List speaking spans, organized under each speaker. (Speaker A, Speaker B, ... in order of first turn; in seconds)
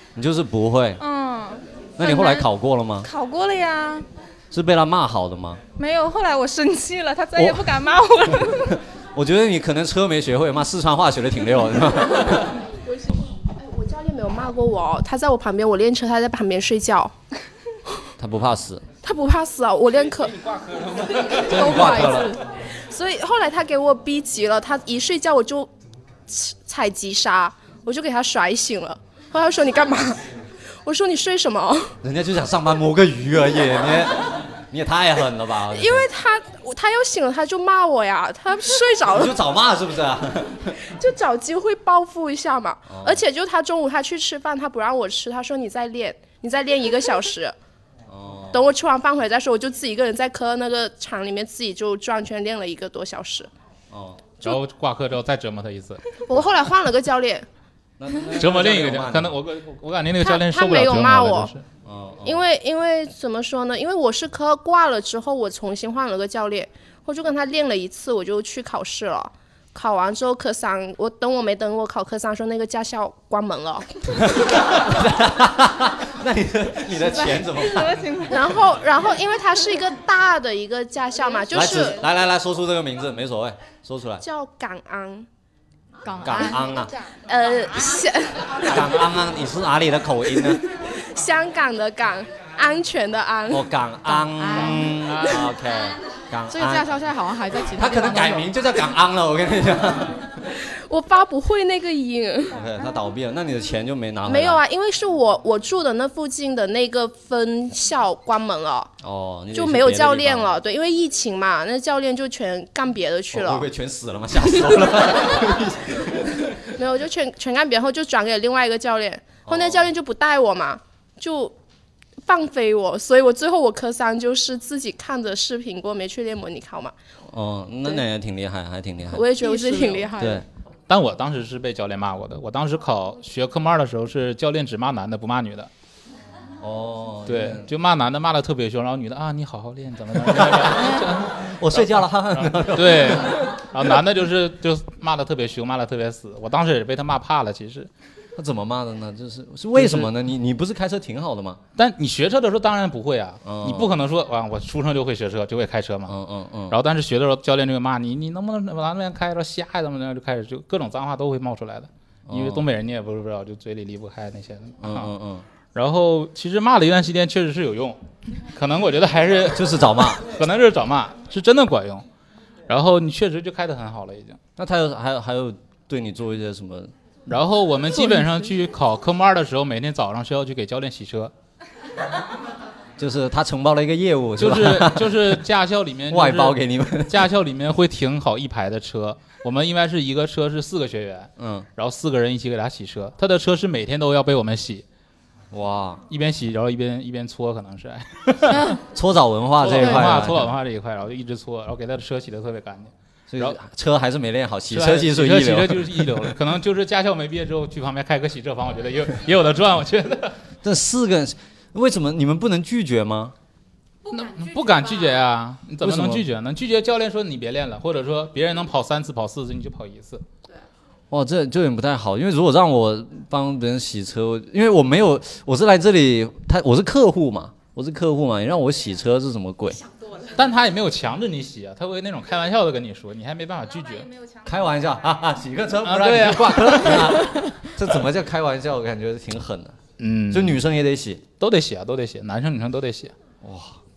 Speaker A: 0.1-1.0, 2.0-3.1, 4.5-5.6, 7.3-7.7, 8.7-12.5, 18.2-18.8, 21.3-22.4, 32.0-36.1, 39.1-40.8, 42.9-43.2, 48.1-48.6, 53.9-54.3, 58.0-59.4, 61.8-62.4, 74.4-78.2, 81.5-84.2, 86.2-86.9, 88.6-90.6, 93.5-96.9, 97.8-100.3, 102.5-104.6, 109.0-110.6, 113.3-116.7, 119.5-119.9, 127.3-129.5, 130.1-130.4, 136.6-137.7, 140.2-143.5, 148.3-151.6, 153.4-153.9, 156.1-156.8, 162.3-162.7, 164.8-165.4, 169.5-170.3, 174.6-176.9, 183.0-185.4, 186.1-187.3, 191.4-191.7, 195.5-196.0, 198.9-200.5, 203.3-206.3, 210.6-213.3, 215.8-216.2, 221.1-229.8, 234.4-239.8, 240.3-241.2, 243.4-243.8
Speaker B: 1.0-2.5, 3.0-4.0, 5.8-8.8, 77.2-78.5
Speaker C: 13.6-17.1, 19.0-20.4, 21.1-22.1, 22.9-25.7, 26.3-30.2, 30.8-31.9, 35.7-39.4, 40.9-47.5, 48.5-53.5, 56.3-57.5, 60.2-61.5, 62.2-74.3, 78.3-82.0, 84.2-85.3, 87.2-88.8, 90.7-93.7, 100.9-102.5, 104.2-108.9, 109.5-113.6, 116.8-121.5, 122.2-126.9, 129.1-130.4
Speaker D: 54.4-56.2, 58.2-61.6, 95.0-95.4, 130.9-135.7, 137.2-147.9, 149.7-150.1, 151.8-156.1, 156.7-165.1, 165.7-168.0, 168.5-172.0, 172.7-174.4, 177.3-181.3, 184.4-194.8, 196.1-198.8, 199.6-203.6, 204.7-210.4, 214.1-220.2, 230.3-234.1, 235.8-237.5, 240.0-240.6, 241.4-243.1
Speaker E: 86.0-86.6, 94.3-94.9, 96.5-98.5